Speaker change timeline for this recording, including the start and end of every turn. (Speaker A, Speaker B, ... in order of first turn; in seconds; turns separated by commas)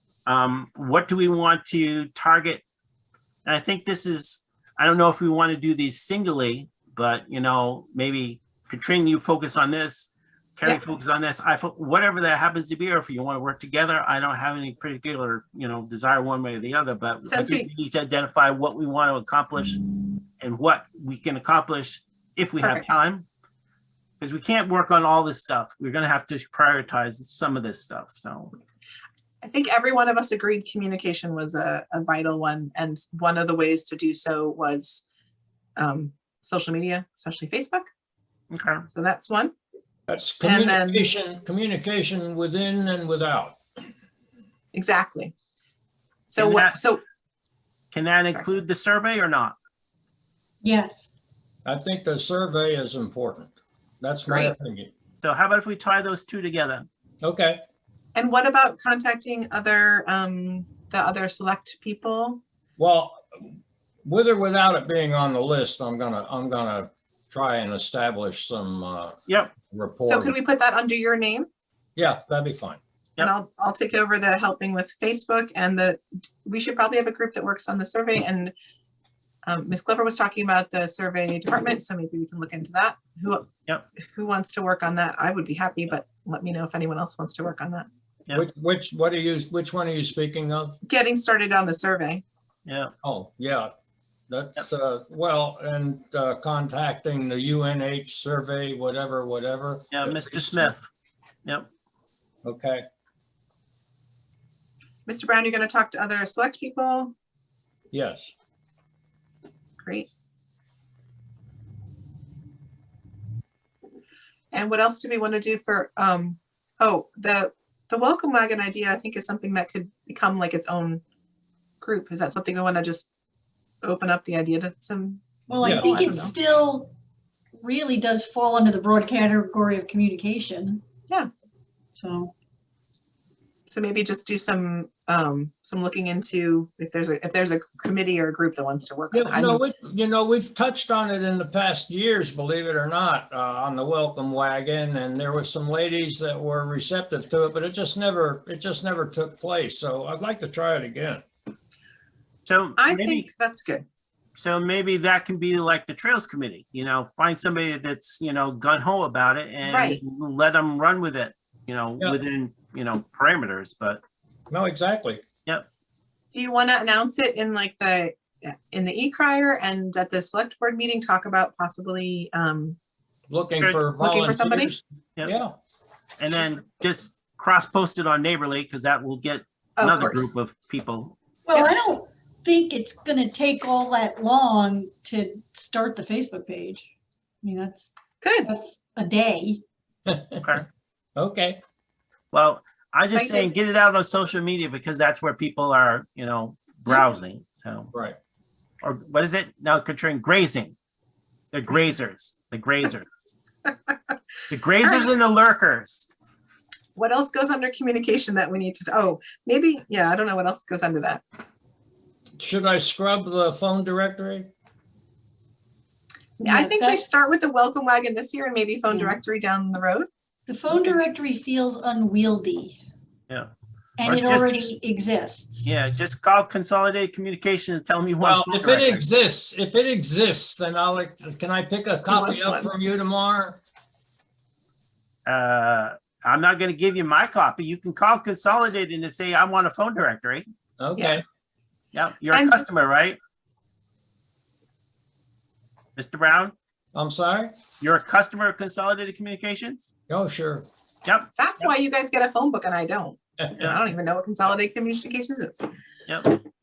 Speaker A: 0.2-2.6, Speaker A: 3.4-19.8, Speaker B: 17.2-17.7, Speaker A: 20.4-23.3, Speaker B: 22.6-22.9, Speaker A: 24.2-28.5, Speaker B: 29.4-35.0, Speaker B: 35.8-37.9, Speaker A: 38.5-38.8, Speaker B: 38.9-39.5, Speaker C: 40.1-43.6, Speaker B: 40.4-41.1, Speaker B: 44.7-45.3, Speaker B: 46.3-47.0, Speaker A: 46.4-46.8, Speaker A: 47.9-49.6, Speaker D: 50.6-51.1, Speaker C: 51.6-54.9, Speaker B: 54.3-54.5, Speaker A: 55.2-56.9, Speaker C: 57.2-57.6, Speaker B: 58.1-62.4, Speaker C: 62.8-69.2, Speaker A: 69.3-69.5, Speaker C: 69.7-70.3, Speaker B: 70.0-71.5, Speaker C: 72.0-72.8, Speaker B: 73.2-78.5, Speaker B: 79.4-87.9, Speaker C: 88.3-90.8, Speaker B: 90.8-92.2, Speaker A: 92.7-92.9, Speaker C: 93.0-93.7, Speaker C: 94.3-100.7, Speaker A: 99.9-100.9, Speaker C: 102.4-102.8, Speaker B: 105.0-107.1, Speaker C: 107.9-108.3, Speaker B: 109.8-110.1, Speaker B: 114.5-121.0, Speaker B: 121.8-123.1, Speaker B: 123.8-126.3, Speaker D: 125.5-126.9, Speaker C: 125.6-125.9, Speaker D: 127.5-130.8, Speaker D: 131.9-132.3, Speaker B: 133.7-139.6, Speaker C: 139.1-151.2, Speaker A: 152.4-153.3, Speaker B: 152.8-153.8, Speaker A: 154.3-164.0, Speaker B: 159.6-160.0, Speaker C: 164.5-165.2, Speaker B: 166.3-172.8, Speaker C: 173.3-175.5, Speaker B: 174.0-174.7, Speaker A: 176.2-181.2, Speaker B: 179.8-180.3, Speaker D: 181.5-186.9, Speaker D: 187.4-187.9, Speaker B: 188.2-188.5, Speaker D: 188.4-189.6, Speaker C: 190.1-190.6, Speaker C: 191.2-191.6, Speaker A: 192.3-197.9, Speaker B: 193.1-193.5, Speaker C: 197.9-198.2, Speaker A: 198.8-200.7, Speaker A: 201.5-203.3, Speaker A: 204.5-206.1, Speaker B: 204.8-205.1, Speaker B: 206.9-211.2, Speaker C: 212.4-214.5, Speaker B: 216.4-220.1, Speaker D: 216.4-217.1, Speaker D: 218.9-219.1, Speaker D: 220.5-222.8, Speaker D: 224.0-225.7, Speaker A: 224.0-224.6, Speaker A: 225.6-229.0, Speaker C: 228.2-233.6, Speaker B: 232.1-232.7, Speaker A: 235.2-240.5, Speaker C: 240.8-241.2, Speaker A: 241.9-243.2, Speaker B: 242.3-242.7, Speaker A: 245.9-246.5, Speaker C: 246.9-247.5, Speaker A: 247.8-249.9, Speaker C: 250.1-250.7, Speaker A: 251.0-251.6, Speaker B: 251.4-255.6, Speaker A: 256.1-256.4